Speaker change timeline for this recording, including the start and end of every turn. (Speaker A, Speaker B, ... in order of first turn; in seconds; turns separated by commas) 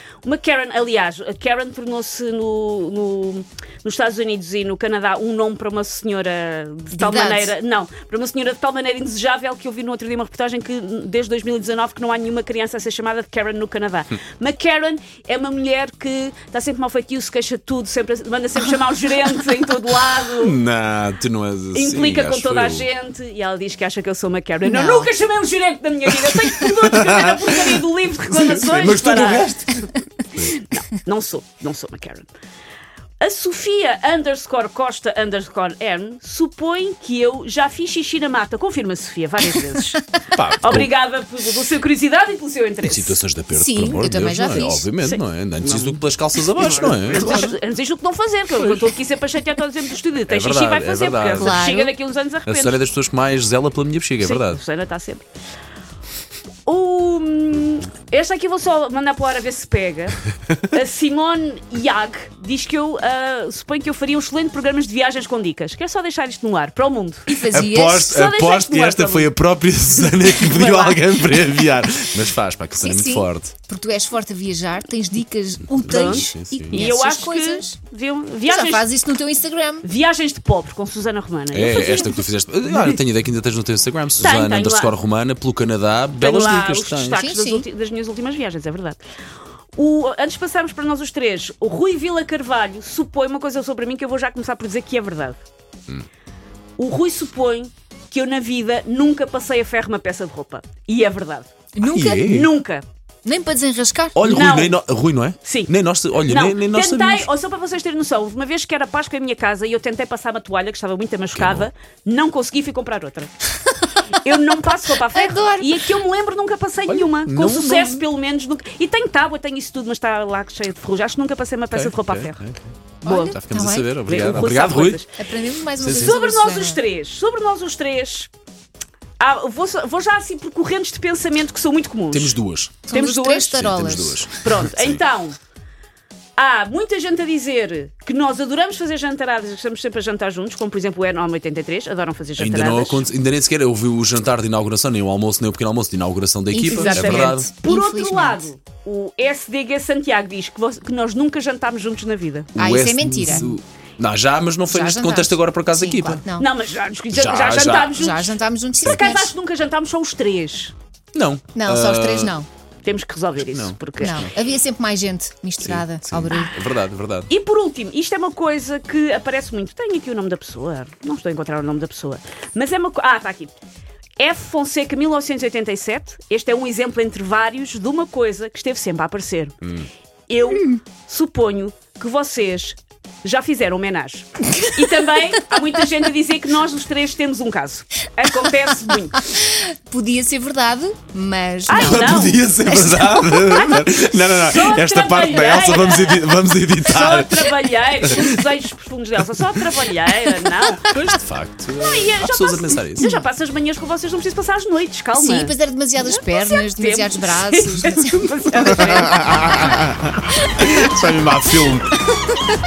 Speaker A: 0.2-20.6, Speaker B: 6.9-7.5, Speaker C: 20.4-22.9, Speaker A: 21.7-29.6, Speaker B: 24.6-25.1, Speaker C: 26.1-30.6, Speaker A: 30.5-32.3, Speaker A: 33.2-40.0, Speaker C: 40.3-40.9, Speaker A: 40.6-43.1, Speaker C: 42.8-47.5, Speaker B: 43.5-44.9, Speaker A: 45.6-46.0, Speaker A: 46.5-52.8, Speaker C: 48.6-48.9, Speaker C: 50.3-51.6, Speaker B: 51.3-51.9, Speaker C: 52.5-54.6, Speaker A: 54.2-55.2, Speaker A: 56.6-67.3, Speaker B: 67.3-68.1, Speaker C: 67.5-73.5, Speaker A: 68.0-69.3, Speaker B: 70.5-70.9, Speaker A: 70.6-70.9, Speaker B: 72.8-77.8, Speaker C: 75.7-76.9, Speaker A: 75.9-78.9, Speaker B: 78.5-79.9, Speaker A: 79.8-82.2, Speaker C: 81.5-87.2, Speaker B: 82.7-83.0, Speaker A: 84.2-84.9, Speaker A: 86.2-89.0, Speaker B: 87.0-87.7, Speaker A: 89.8-95.4, Speaker A: 96.8-101.5, Speaker B: 101.8-102.4, Speaker C: 101.8-102.5, Speaker A: 102.2-102.8, Speaker B: 103.2-104.2, Speaker C: 104.2-107.3, Speaker A: 104.2-104.8, Speaker A: 105.4-105.7, Speaker A: 106.2-113.3, Speaker C: 111.3-111.7, Speaker A: 114.1-122.4, Speaker B: 115.1-115.8, Speaker C: 116.9-118.0, Speaker C: 121.7-122.6, Speaker A: 123.0-123.4, Speaker B: 123.0-124.2, Speaker C: 123.3-125.0, Speaker A: 124.0-125.2, Speaker B: 125.2-126.8, Speaker C: 125.8-126.2, Speaker A: 126.0-128.3, Speaker A: 129.2-132.3, Speaker C: 132.1-132.9, Speaker B: 132.9-134.3, Speaker A: 132.9-133.7, Speaker C: 133.5-135.0, Speaker A: 134.3-135.4, Speaker A: 136.4-143.1, Speaker C: 142.4-147.5, Speaker B: 146.5-148.5, Speaker A: 146.7-152.5, Speaker B: 152.5-153.5, Speaker C: 152.5-156.2, Speaker B: 154.7-156.5, Speaker A: 156.4-158.2, Speaker C: 157.1-158.0, Speaker B: 157.9-159.3, Speaker A: 158.8-160.7, Speaker C: 158.8-159.1, Speaker C: 161.1-162.3, Speaker B: 161.5-162.5, Speaker A: 162.8-164.2, Speaker C: 163.4-164.3, Speaker B: 164.0-166.5, Speaker C: 165.6-167.3, Speaker A: 167.3-173.5, Speaker A: 174.2-179.5, Speaker C: 179.6-179.9, Speaker A: 180.3-189.2, Speaker B: 189.2-193.6, Speaker A: 191.7-192.4, Speaker C: 191.8-197.5, Speaker A: 193.1-193.9, Speaker A: 194.4-196.2, Speaker A: 196.8-200.9, Speaker C: 198.0-198.4, Speaker C: 200.7-203.1, Speaker A: 201.8-209.8, Speaker B: 205.1-209.4, Speaker C: 209.0-212.0